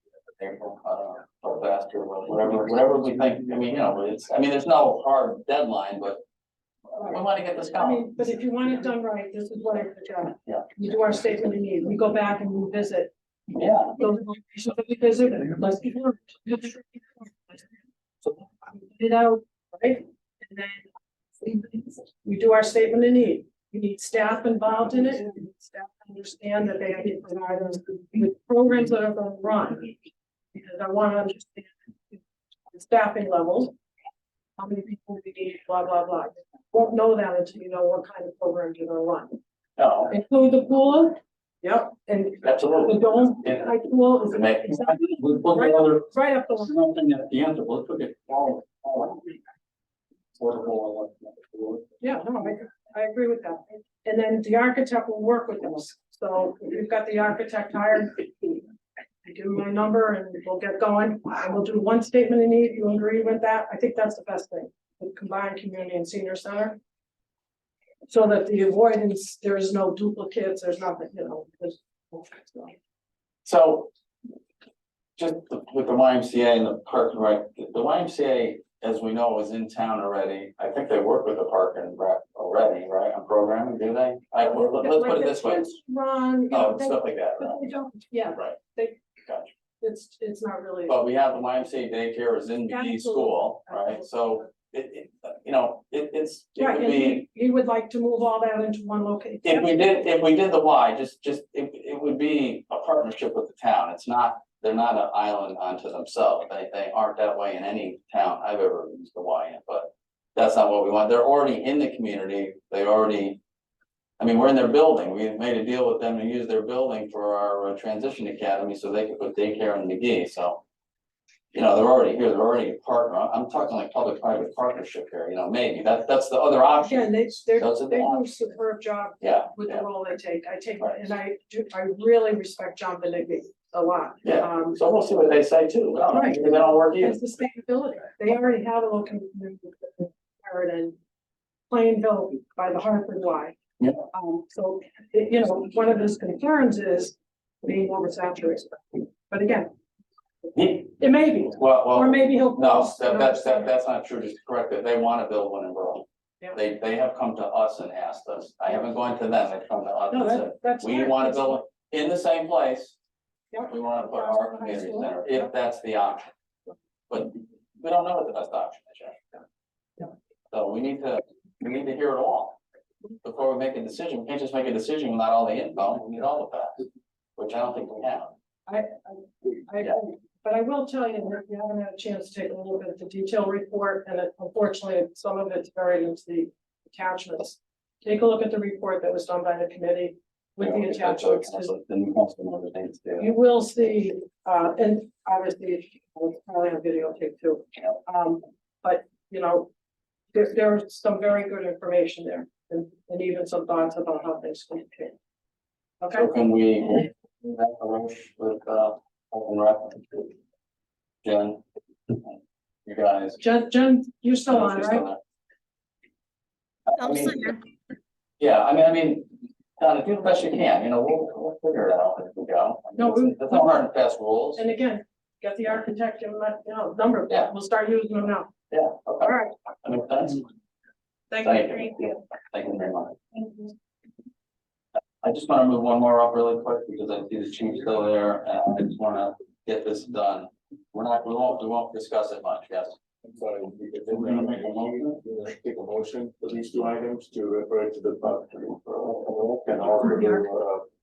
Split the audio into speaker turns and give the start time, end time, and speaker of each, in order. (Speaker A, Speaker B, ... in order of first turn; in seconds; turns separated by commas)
Speaker A: 0.4-6.2, Speaker A: 7.0-8.1, Speaker B: 7.8-13.1, Speaker A: 13.6-14.0, Speaker B: 13.9-17.7, Speaker B: 18.7-20.9, Speaker B: 21.4-30.0, Speaker B: 30.5-32.2, Speaker B: 32.7-33.8, Speaker B: 34.6-39.4, Speaker A: 39.8-40.1, Speaker B: 40.1-46.8, Speaker A: 42.4-43.7, Speaker A: 44.3-44.8, Speaker C: 44.9-49.3, Speaker C: 50.4-51.8, Speaker B: 52.0-58.6, Speaker B: 59.2-66.8, Speaker B: 68.1-72.8, Speaker A: 73.5-73.9, Speaker A: 75.2-85.7, Speaker B: 84.4-89.0, Speaker A: 86.5-87.6, Speaker A: 89.3-89.5, Speaker B: 89.8-91.0, Speaker A: 90.9-97.3, Speaker B: 92.7-94.5, Speaker B: 96.6-100.1, Speaker A: 99.5-113.4, Speaker A: 114.2-120.6, Speaker A: 121.5-128.2, Speaker B: 126.8-134.8, Speaker A: 129.2-129.8, Speaker A: 134.2-137.2, Speaker B: 136.1-141.0, Speaker B: 141.7-143.6, Speaker B: 144.1-149.7, Speaker A: 150.6-150.8, Speaker B: 150.7-153.7, Speaker A: 151.5-163.0, Speaker B: 160.1-161.6, Speaker B: 163.5-165.5, Speaker A: 163.7-166.3, Speaker A: 167.1-169.4, Speaker A: 170.5-172.6, Speaker A: 173.2-176.8, Speaker A: 177.4-178.3, Speaker B: 178.7-191.7, Speaker A: 190.6-193.3, Speaker B: 193.2-199.7, Speaker B: 200.3-205.2, Speaker B: 206.0-206.3, Speaker A: 206.1-210.3, Speaker A: 211.2-213.4, Speaker B: 213.4-215.1, Speaker A: 214.5-215.2, Speaker A: 216.9-217.5, Speaker B: 217.2-217.5, Speaker A: 218.4-224.6, Speaker B: 223.0-223.8, Speaker B: 224.6-228.5, Speaker A: 228.7-230.4, Speaker B: 229.2-229.5, Speaker B: 231.3-232.2, Speaker A: 231.4-233.2, Speaker A: 235.2-243.0, Speaker D: 243.2-250.9, Speaker C: 244.1-245.2, Speaker A: 249.7-250.0